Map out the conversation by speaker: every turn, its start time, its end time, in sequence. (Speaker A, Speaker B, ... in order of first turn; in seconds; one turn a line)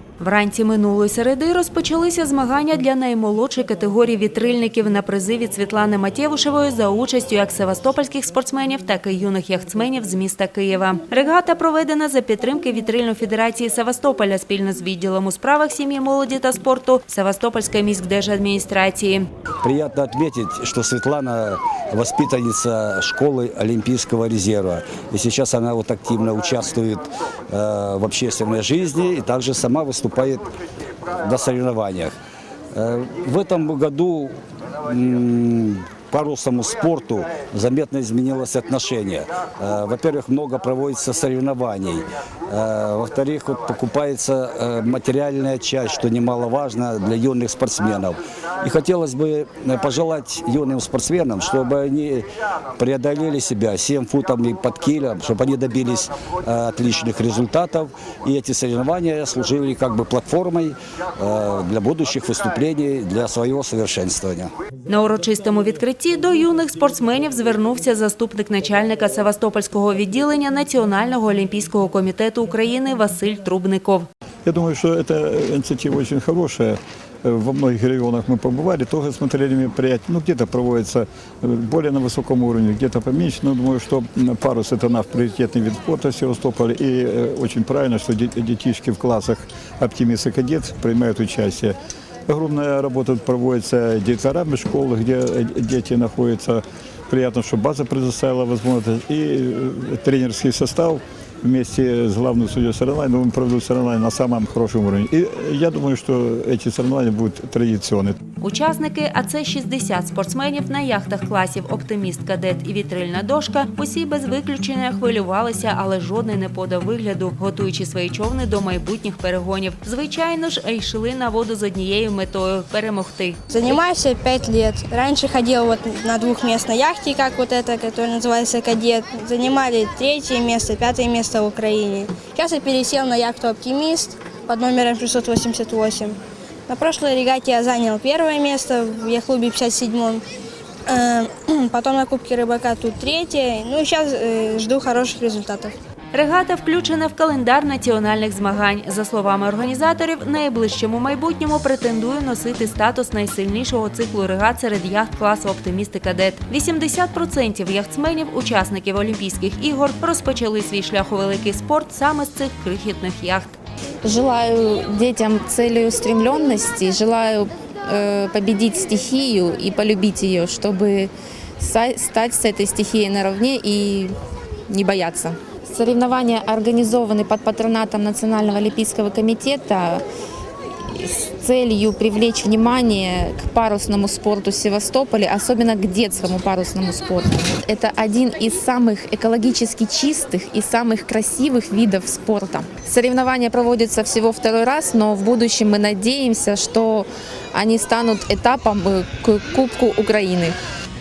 Speaker A: 0.2-19.3
Speaker B: 19.6-30.5
Speaker B: 31.2-32.1
Speaker B: 32.7-64.5
Speaker A: 64.9-74.1
Speaker C: 74.5-91.8
Speaker C: 92.3-108.2
Speaker A: 108.4-123.7
Speaker D: 123.5-136.2
Speaker D: 136.7-140.2
Speaker D: 140.9-145.7
Speaker A: 146.1-163.6
Speaker E: 164.1-174.1
Speaker E: 174.7-180.0
Speaker E: 180.9-200.5